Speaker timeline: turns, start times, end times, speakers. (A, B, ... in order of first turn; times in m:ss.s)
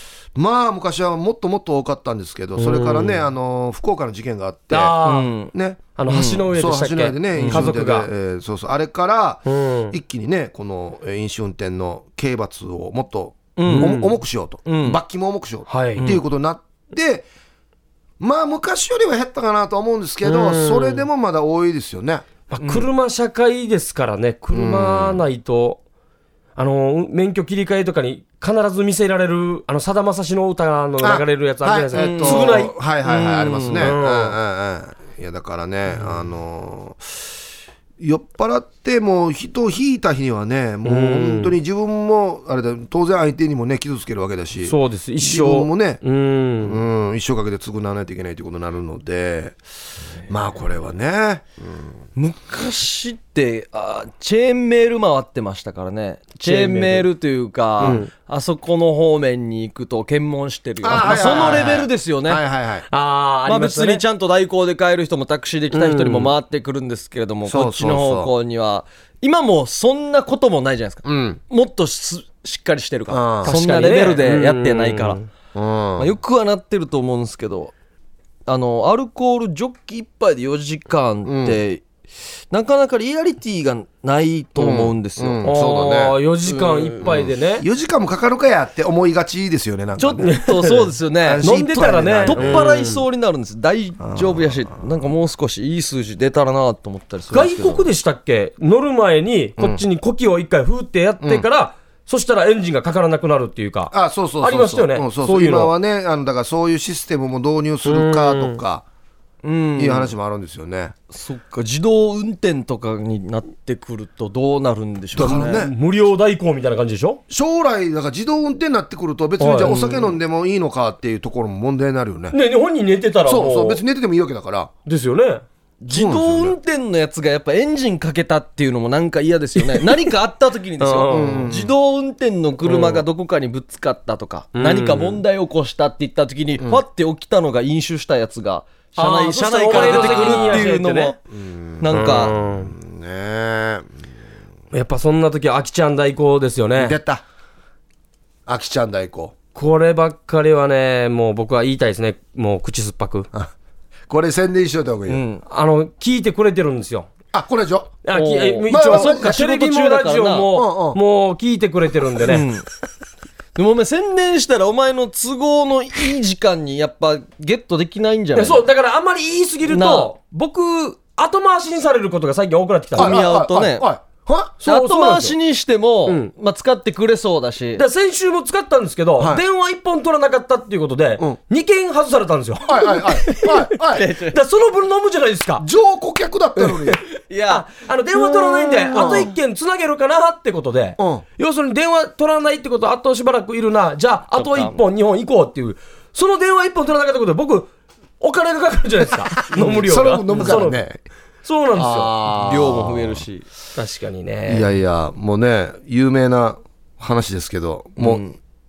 0:00.4-0:05.0 A
0:02.6-0:03.3 B
0:04.7-0:05.3 B
0:05.0-0:05.5 C
0:05.5-0:05.9 A
0:06.0-0:08.1 B
0:06.1-0:06.5 C
0:06.5-0:17.3 A
0:07.3-0:07.7 C
0:09.5-0:09.9 B
0:13.6-0:14.0 C
0:13.6-0:14.1 B
0:14.6-0:15.0 C
0:15.7-0:16.1 B
0:16.0-0:16.2 C
0:18.2-0:22.3 A
0:20.2-0:21.1 B
0:22.5-0:25.8 B
0:22.6-0:22.9 C
0:24.5-0:25.2 A
0:26.6-0:32.7 B
0:31.0-0:37.1 A
0:31.9-0:33.9 C
0:33.8-0:34.4 B
0:38.0-0:46.0 A
0:40.8-0:41.6 B
0:44.6-0:46.8 B
0:46.6-0:49.6 A
0:50.3-0:51.5 A
0:52.2-1:02.4 C
0:56.4-0:57.1 B
0:57.8-0:58.1 B
0:57.8-0:58.1 A
1:00.8-1:02.9 A
1:00.8-1:01.8 B
1:02.9-1:04.0 B
1:03.5-1:15.2 C
1:05.7-1:06.3 B
1:07.4-1:08.3 A
1:11.0-1:11.4 A
1:13.1-1:13.5 A
1:13.4-1:15.2 B
1:15.5-1:16.1 A
1:16.0-1:17.7 C
1:18.5-1:21.8 C
1:21.3-1:21.6 A
1:22.5-1:25.5 C
1:24.6-1:26.2 A
1:25.4-1:27.7 B
1:26.4-1:27.0 C
1:27.0-1:30.4 A
1:30.0-1:37.9 C
1:30.2-1:33.0 B
1:31.2-1:32.7 A
1:34.0-1:34.8 A
1:37.3-1:45.7 B
1:43.9-1:48.8 A
1:47.8-1:48.6 B
1:49.4-1:50.1 C
1:49.8-1:50.9 A
1:51.1-1:55.6 C
1:55.1-1:55.7 A
1:55.2-1:57.2 B
1:57.3-2:02.4 A
1:59.4-1:59.8 B
1:59.6-2:00.2 C
2:02.3-2:03.8 B
2:03.3-2:04.7 A
2:04.9-2:05.4 B
2:05.8-2:21.2 C
2:05.9-2:06.6 A
2:09.7-2:10.0 B
2:10.8-2:11.5 B
2:11.1-2:11.7 A
2:12.6-2:13.0 B
2:14.6-2:15.2 B
2:19.0-2:21.1 B
2:19.7-2:20.6 A
2:21.3-2:23.9 A
2:21.8-2:22.3 C
2:21.9-2:22.7 B
2:24.7-2:27.0 B
2:26.8-2:27.2 A
2:28.4-2:29.4 A
2:29.6-2:33.3 B
2:34.1-2:35.2 A
2:35.1-2:35.4 C
2:35.4-2:37.1 B
2:37.3-2:38.0 A
2:38.0-2:42.5 B
2:38.1-2:40.5 C
2:38.7-2:39.4 A
2:40.5-2:41.0 A
2:42.2-2:42.7 C
2:43.6-2:48.6 C
2:48.4-2:53.2 B
2:49.6-2:50.1 C
2:53.0-2:53.9 C
2:53.0-2:54.6 A
2:54.6-2:55.4 B
2:54.6-2:57.8 C
2:57.8-3:03.6 B
2:59.2-2:59.4 A
3:02.6-3:04.1 A
3:02.9-3:04.4 C
3:04.3-3:05.6 B
3:05.6-3:07.0 A
3:06.6-3:09.4 C
3:07.5-3:17.7 B
3:08.9-3:09.3 A
3:11.0-3:11.2 A
3:14.4-3:14.8 C
3:18.2-3:20.8 B
3:19.5-3:21.0 A
3:20.3-3:20.6 C
3:21.4-3:22.1 B
3:21.7-3:23.2 A
3:22.3-3:23.5 C
3:23.8-3:24.7 B
3:24.5-3:28.2 A
3:28.0-3:28.4 C